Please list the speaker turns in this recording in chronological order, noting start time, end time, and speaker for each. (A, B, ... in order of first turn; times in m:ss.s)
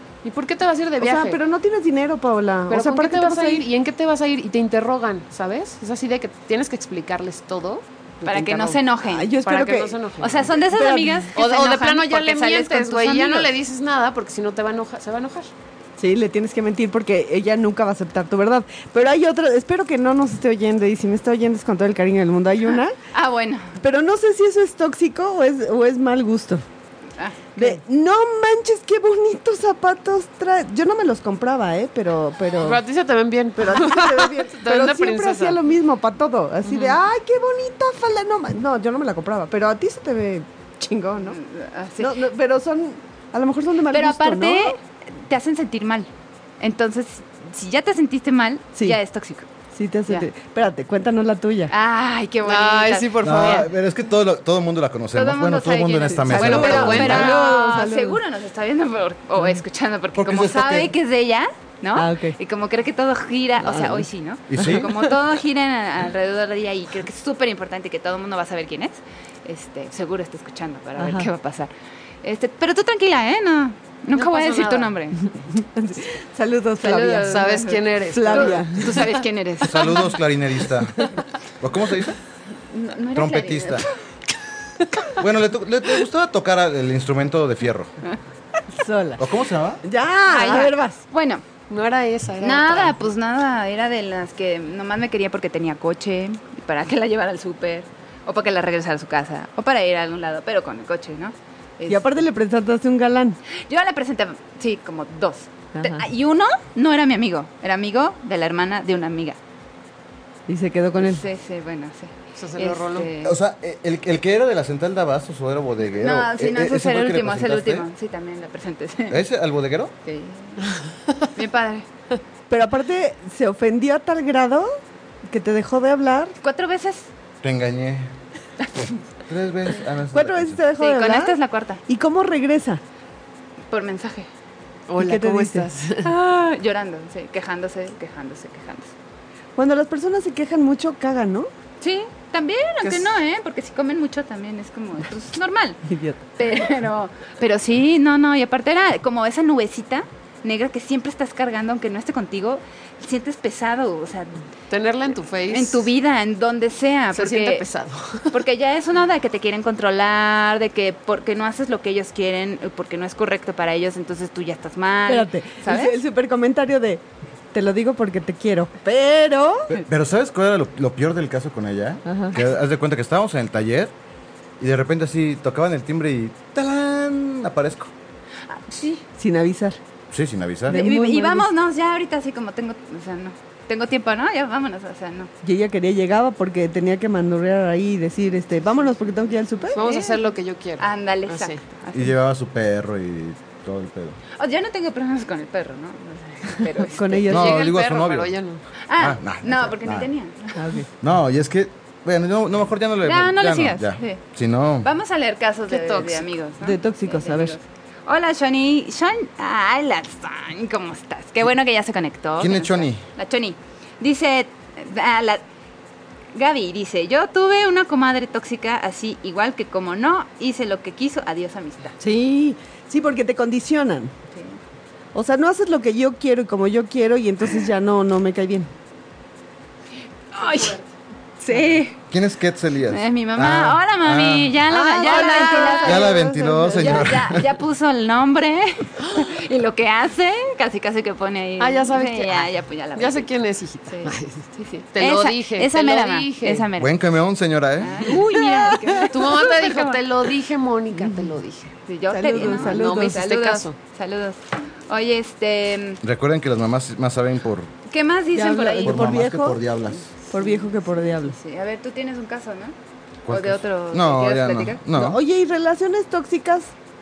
0:00.2-0:01.4 A
0:01.0-0:03.6 B
0:02.7-0:08.7 A
0:08.2-0:09.4 C
0:09.0-0:10.0 B
0:09.4-0:10.5 A
0:10.2-0:13.5 C
0:10.6-0:11.3 B
0:11.4-0:15.5 A
0:16.0-0:23.0 B
0:23.1-0:23.8 C
0:23.8-0:26.6 B
0:27.2-0:27.6 C
0:27.6-0:32.8 B
0:32.6-0:35.6 A
0:33.6-0:41.4 B
0:41.2-0:42.2 C
0:42.0-0:44.8 B
0:43.9-0:46.1 C
0:46.6-0:49.5 C
0:49.7-0:51.7 B
0:51.7-0:53.5 C
0:52.4-0:53.7 A
0:53.2-0:57.3 D
0:55.1-1:11.7 C
0:56.2-0:58.2 B
0:56.3-0:57.4 A
1:00.1-1:00.9 D
1:02.0-1:02.4 B
1:03.6-1:04.1 B
1:04.5-1:04.9 D
1:04.6-1:04.9 B
1:11.0-1:11.3 B
1:12.2-1:15.2 C
1:14.1-1:14.9 A
1:15.6-1:17.5 B
1:16.8-1:20.0 C
1:17.2-1:19.2 A
1:18.0-1:18.9 B
1:19.6-1:21.1 D
1:21.6-1:22.2 D
1:22.7-1:23.9 C
1:23.1-1:23.9 D
1:25.2-1:27.9 D
1:28.7-1:29.2 B
1:29.2-1:29.8 D
1:29.8-1:31.0 B
1:30.3-1:31.4 C
1:31.7-1:33.0 A
1:32.4-1:42.1 C
1:41.9-1:43.4 B
1:43.7-1:49.4 C
1:45.8-1:46.0 B
1:50.5-1:51.2 B
1:51.0-1:53.4 C
1:52.4-1:53.1 A
1:53.2-1:57.9 D
1:56.0-1:59.2 C
1:59.1-1:59.9 D
2:00.0-2:00.6 C
2:01.3-2:01.9 C
2:02.5-2:04.7 B
2:05.3-2:06.4 B
2:06.4-2:07.1 C
2:07.4-2:08.1 D
2:08.8-2:10.6 D
2:10.1-2:12.8 B
2:10.8-2:11.8 C
2:13.7-2:14.3 C
2:14.9-2:16.1 A
2:15.0-2:15.7 B
2:16.0-2:18.9 C
2:19.6-2:21.5 B
2:21.8-2:25.8 C
2:22.8-2:23.1 A
2:25.9-2:26.2 B
2:26.4-2:34.4 C
2:34.7-2:35.9 A
2:35.5-2:37.6 C
2:37.1-2:38.3 A
2:38.3-2:46.0 C
2:45.1-2:49.8 B
2:49.7-2:53.9 D
2:52.0-2:52.4 B
2:54.6-2:57.9 D
2:58.5-2:59.0 C
2:59.2-2:59.8 B
3:00.1-3:00.8 D
3:00.7-3:01.5 B
3:00.7-3:05.3 C
3:05.4-3:09.8 B
3:09.8-3:10.2 C
3:09.8-3:11.6 A
3:10.8-3:12.1 C
3:11.9-3:14.2 D
3:14.4-3:17.3 C
3:16.8-3:17.6 B
3:17.3-3:18.3 D
3:17.3-3:18.6 A
3:18.9-3:20.6 C
3:19.0-3:20.1 D
3:20.6-3:20.9 B
3:21.0-3:24.9 D
3:23.0-3:24.2 C
3:24.8-3:35.4 C
3:25.7-3:26.2 A
3:26.6-3:27.6 B
3:32.4-3:33.0 D
3:36.3-3:42.0 C
3:42.0-3:44.1 B
3:45.1-3:48.7 B
3:50.3-3:50.8 C
3:50.4-3:50.9 A
3:51.4-3:52.0 C
3:52.1-3:54.6 D
3:52.9-4:03.3 C
3:54.7-3:57.2 B
3:55.0-3:56.0 A
3:55.8-3:57.5 D
4:01.6-4:06.7 A
4:03.9-4:06.9 C
4:06.8-4:08.2 D
4:07.8-4:10.0 C
4:08.6-4:11.7 A
4:10.9-4:11.3 B
4:11.9-4:16.0 C
4:12.1-4:13.2 B
4:12.3-4:13.8 A
4:16.0-4:17.7 D
4:17.9-4:19.3 C
4:18.3-4:19.6 B
4:18.8-4:20.1 D
4:20.3-4:21.3 B
4:20.3-4:22.8 C
4:23.2-4:25.2 D
4:23.3-4:24.8 C
4:24.9-4:26.7 B